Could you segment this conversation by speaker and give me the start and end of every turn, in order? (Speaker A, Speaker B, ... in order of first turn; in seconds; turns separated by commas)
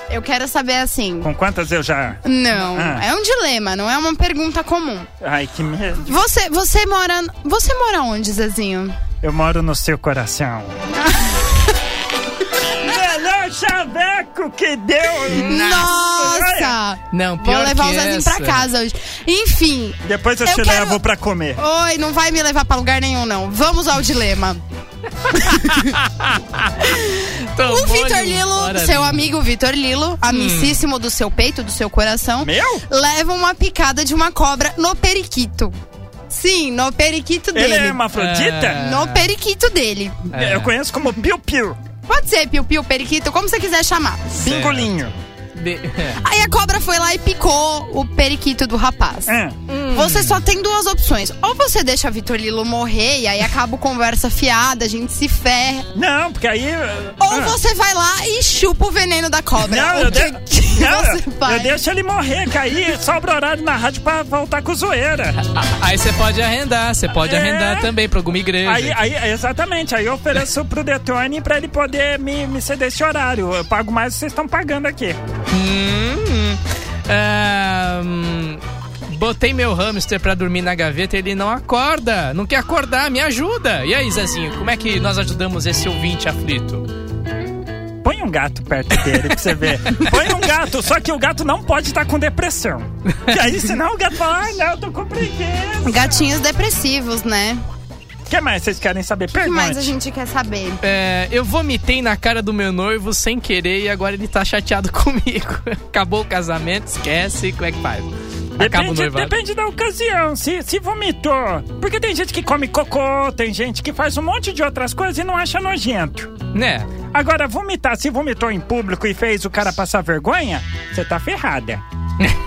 Speaker A: 0.1-1.3, Speaker B: 1.2-3.0, Speaker A: 2.2-5.1, Speaker B: 5.2-6.2, Speaker A: 6.0-9.0, Speaker B: 9.2-10.7, Speaker A: 11.0-11.7, Speaker B: 12.8-16.8, Speaker A: 15.3-21.0, Speaker C: 15.4-15.9, Speaker C: 17.1-18.7, Speaker B: 20.0-21.6, Speaker A: 21.6-24.6, Speaker C: 25.3-27.0, Speaker A: 25.4-25.8, Speaker A: 26.8-27.1, Speaker C: 27.6-29.3, Speaker A: 27.6-35.8, Speaker C: 30.3-30.8, Speaker B: 32.4-32.8, Speaker A: 36.3-38.0, Speaker B: 37.5-38.8, Speaker C: 38.1-39.3, Speaker A: 38.8-40.2, Speaker C: 40.3-40.7, Speaker B: 40.4-41.8, Speaker A: 42.1-44.4, Speaker B: 44.4-45.1, Speaker C: 44.4-46.2, Speaker A: 46.2-49.3, Speaker B: 49.3-49.6, Speaker C: 49.7-50.5, Speaker A: 49.9-55.9, Speaker B: 56.0-57.6, Speaker A: 57.2-61.7, Speaker B: 59.6-65.4, Speaker C: 65.5-69.0, Speaker B: 67.1-67.9, Speaker B: 68.6-75.2, Speaker C: 75.5-86.9, Speaker B: 88.0-96.3, Speaker A: 95.8-97.6, Speaker B: 98.3-99.9, Speaker A: 99.3-100.8, Speaker C: 100.8-109.3, Speaker B: 108.6-116.4, Speaker C: 116.5-116.9, Speaker B: 117.1-121.8